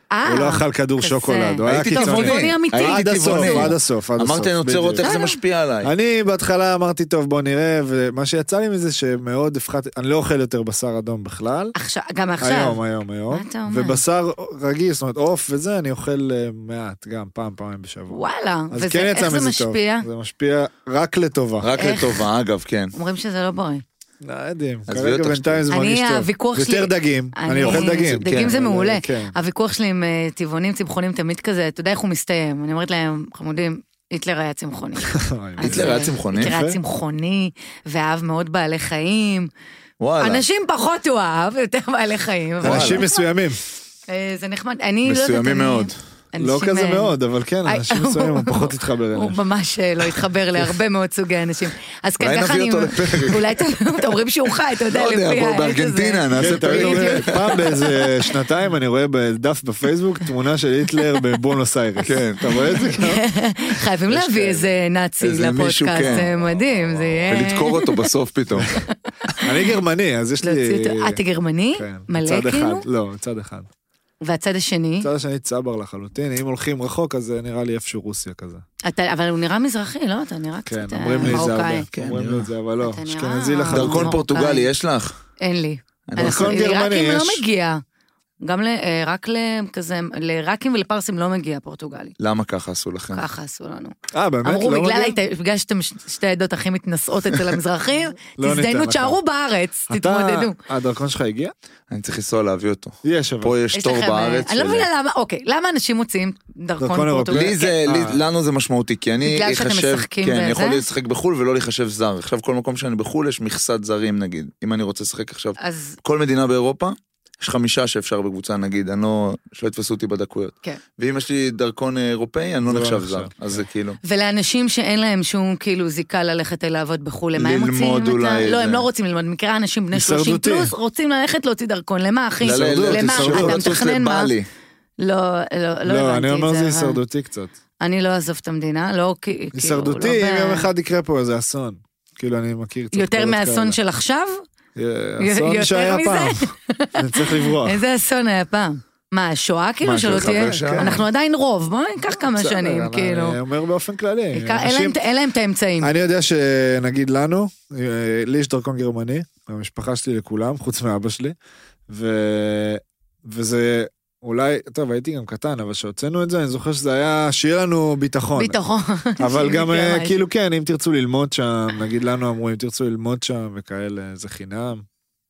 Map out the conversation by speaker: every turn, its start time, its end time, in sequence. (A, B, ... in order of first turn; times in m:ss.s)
0:00.1-0:03.7 A
0:00.2-0:05.1 B
0:01.6-0:05.9 C
0:05.0-0:05.4 A
0:05.8-0:11.7 B
0:11.8-0:14.0 A
0:12.4-0:21.7 B
0:18.1-0:20.1 A
0:21.6-0:22.9 C
0:21.8-0:22.2 A
0:22.9-0:23.8 A
0:24.2-0:29.3 B
0:24.9-0:25.6 C
0:25.7-0:39.5 A
0:35.1-0:36.8 B
0:35.6-0:36.5 C
0:40.0-0:40.4 C
0:40.2-0:43.3 A
0:42.6-0:43.6 B
0:42.6-0:43.0 C
0:44.1-0:47.1 A
0:45.0-0:46.0 C
0:46.4-0:49.4 B
0:47.6-0:58.3 A
0:52.2-0:53.4 C
0:54.9-0:57.5 C
0:56.4-1:03.2 B
1:02.0-1:02.7 C
1:02.5-1:08.1 A
1:04.1-1:04.7 B
1:05.2-1:06.3 C
1:06.0-1:07.5 B
1:07.3-1:08.7 C
1:08.7-1:09.7 A
1:09.4-1:11.2 B
1:10.4-1:12.8 A
1:11.7-1:13.7 B
1:14.2-1:15.1 A
1:15.0-1:18.6 B
1:18.8-1:21.9 A
1:20.7-1:24.1 B
1:21.2-1:22.5 C
1:22.8-1:24.7 A
1:23.7-1:25.2 C
1:25.4-1:27.8 A
1:26.1-1:26.6 C
1:26.2-1:27.4 B
1:28.4-1:32.1 A
1:32.2-1:33.2 C
1:33.1-1:40.6 A
1:34.1-1:35.2 B
1:38.4-1:39.2 B
1:39.9-1:41.5 B
1:41.9-1:44.9 C
1:43.0-1:43.5 B
1:43.7-1:47.8 A
1:46.8-1:48.2 B
1:47.3-2:04.0 C
1:49.2-1:50.8 A
1:55.6-1:56.0 A
2:02.6-2:03.3 B
2:04.0-2:14.3 A
2:07.4-2:08.8 C
2:09.9-2:10.7 B
2:12.4-2:14.4 C
2:12.4-2:13.7 B
2:15.0-2:17.0 A
2:15.8-2:17.5 B
2:17.8-2:20.7 A
2:19.5-2:23.8 B
2:22.9-2:24.4 A
2:24.8-2:27.8 B
2:25.2-2:33.4 A
2:29.8-2:31.0 C
2:30.1-2:31.0 B
2:32.3-2:35.0 B
2:34.3-2:35.9 A
2:35.8-2:41.4 B
2:41.9-2:48.6 B
2:48.4-2:50.2 A
2:49.2-2:54.8 B